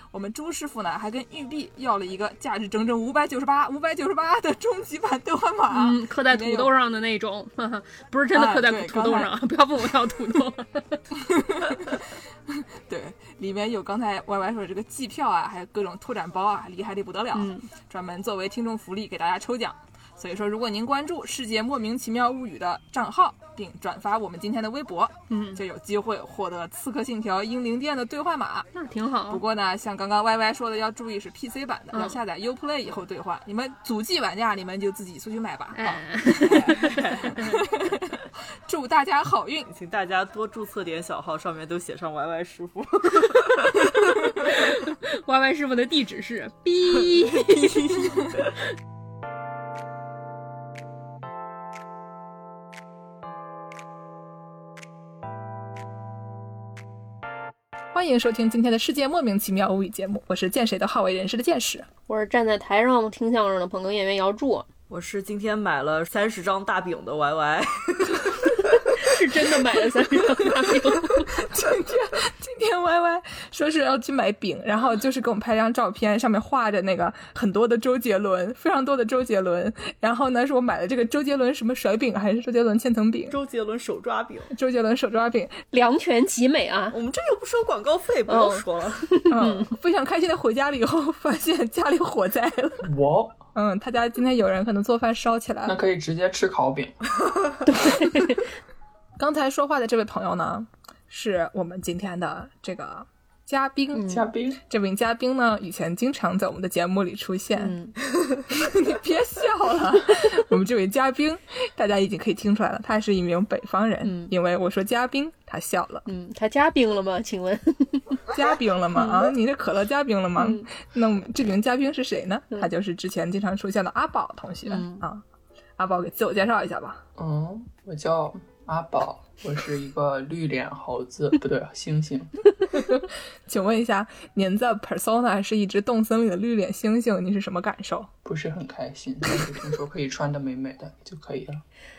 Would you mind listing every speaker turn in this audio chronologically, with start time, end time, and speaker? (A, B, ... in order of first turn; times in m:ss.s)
0:00.1-0:06.7 A
0:05.7-0:11.0 B
0:08.3-0:09.3 A
0:11.1-0:28.7 A
0:17.3-0:17.7 B
0:25.3-0:25.6 B
0:28.7-0:29.4 B
0:29.3-0:39.7 A
0:31.9-0:32.2 B
0:35.7-0:37.6 B
0:36.5-0:37.4 C
0:39.7-0:43.8 C
0:43.8-0:48.3 B
0:47.3-0:48.1 C
0:57.9-1:01.9 A
1:02.1-1:04.7 B
1:04.9-1:08.8 C
1:08.7-1:11.3 B
1:11.3-1:23.4 A
1:23.3-1:24.5 C
1:24.5-1:25.6 A
1:25.7-1:26.9 B
1:26.9-1:29.1 C
1:28.3-1:29.7 B
1:29.3-1:32.9 A
1:32.8-1:33.4 D
1:33.5-1:35.8 A
1:35.6-1:37.0 D
1:37.7-1:38.4 B
1:37.7-1:38.4 A
1:39.2-1:44.1 A
1:43.9-1:44.2 B
1:44.1-1:44.6 D
1:44.6-1:47.8 A
1:47.6-1:47.9 B
1:48.4-1:56.0 A
1:54.0-1:54.3 B
1:56.1-1:58.2 B
1:58.3-2:05.2 A
1:58.9-1:59.3 B
2:00.4-2:00.7 B
2:04.6-2:05.0 B
2:05.8-2:07.0 A
2:07.2-2:12.3 D
2:12.7-2:18.1 A
2:18.2-2:21.6 D